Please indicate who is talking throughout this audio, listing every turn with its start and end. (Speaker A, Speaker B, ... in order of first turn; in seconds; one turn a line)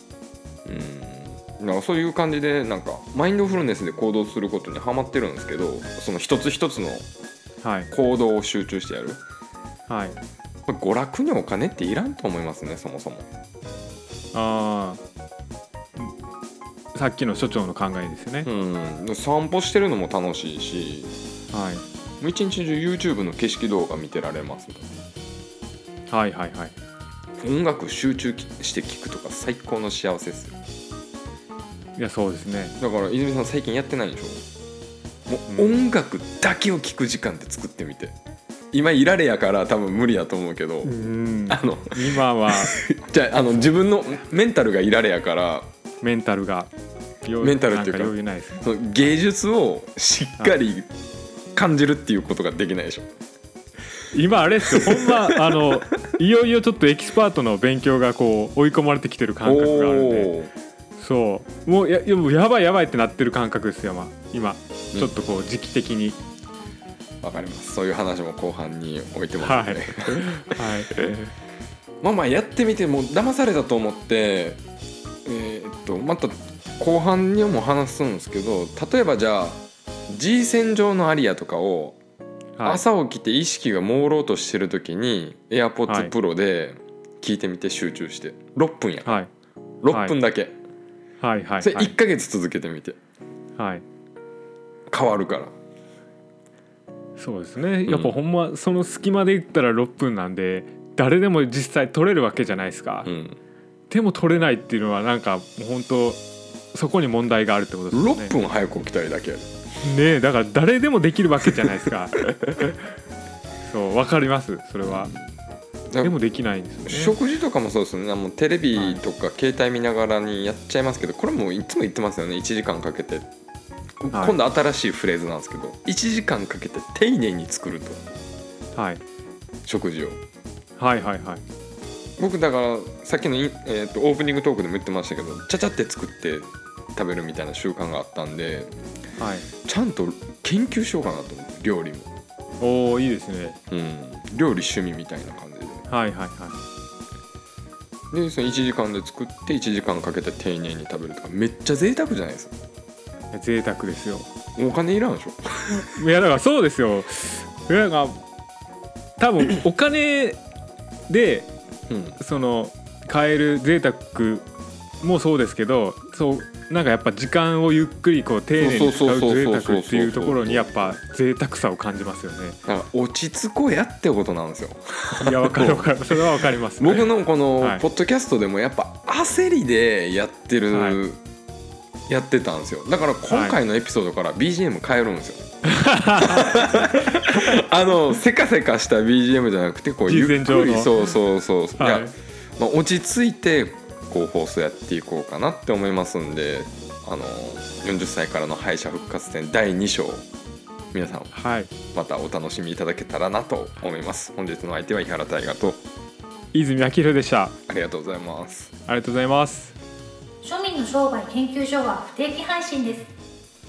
Speaker A: 0.7-7.1
Speaker B: 7.6-7.9
Speaker A: 7.9-9.2
Speaker B: 9.9-10.2
Speaker A: 10.7-13.3
Speaker B: 14.3-15.0
Speaker B: 16.9-18.5
Speaker A: 18.4-21.1
Speaker B: 21.5-21.8
Speaker A: 22.2-25.0
Speaker B: 26.1-26.8
Speaker A: 27.4-30.6
Speaker B: 32.0-32.8
Speaker A: 32.8-34.4
Speaker A: 35.3-38.2
Speaker B: 35.5-35.8
Speaker A: 38.7-40.9
Speaker B: 40.8-42.8
Speaker A: 41.5-45.7
Speaker B: 46.0-46.7
Speaker B: 47.2-48.6
Speaker A: 47.4-50.9
Speaker A: 51.5-53.1
Speaker B: 54.1-60.4
Speaker A: 54.7-55.8
Speaker A: 59.4-60.5
Speaker B: 61.0-66.2
Speaker A: 67.2-71.2
Speaker B: 69.4-71.0
Speaker A: 72.0-74.6
Speaker A: 75.2-82.0
Speaker B: 82.6-82.8
Speaker A: 82.6-89.2
Speaker B: 85.9-86.1
Speaker A: 89.8-90.6
Speaker B: 89.9-90.2
Speaker B: 91.2-91.9
Speaker A: 91.6-93.0
Speaker B: 93.6-93.8
Speaker A: 94.9-95.5
Speaker B: 97.2-103.1
Speaker A: 97.9-98.2
Speaker A: 103.0-103.4
Speaker B: 103.9-106.2
Speaker B: 106.7-108.3
Speaker A: 107.9-109.5
Speaker B: 109.8-112.2
Speaker B: 113.6-115.2
Speaker A: 114.8-115.2
Speaker B: 116.0-117.2
Speaker A: 116.9-123.3
Speaker B: 118.8-119.0
Speaker A: 124.0-128.0
Speaker B: 128.8-129.0
Speaker A: 129.7-130.2
Speaker B: 130.8-131.4
Speaker A: 132.2-138.7
Speaker B: 139.2-139.5
Speaker A: 139.6-142.1
Speaker B: 142.6-143.6
Speaker A: 143.7-145.8
Speaker B: 145.9-146.6
Speaker A: 148.1-152.6
Speaker B: 153.3-154.3
Speaker A: 154.6-155.9
Speaker B: 155.8-158.2
Speaker B: 159.2-160.4
Speaker B: 161.1-161.5
Speaker A: 161.9-162.2
Speaker B: 162.2-164.5
Speaker B: 165.0-172.6
Speaker A: 168.6-171.0
Speaker A: 172.7-176.2
Speaker B: 175.2-177.1
Speaker A: 176.8-181.2
Speaker B: 177.6-177.8
Speaker B: 180.7-181.0
Speaker A: 182.1-185.5
Speaker B: 183.3-183.6
Speaker B: 185.7-187.5
Speaker A: 186.2-200.3
Speaker B: 190.1-191.2
Speaker B: 191.8-192.1
Speaker A: 200.9-201.3
Speaker B: 201.3-201.7
Speaker A: 201.9-205.8
Speaker B: 206.5-207.6
Speaker A: 207.7-208.7
Speaker B: 208.9-209.8
Speaker C: 210.4-213.1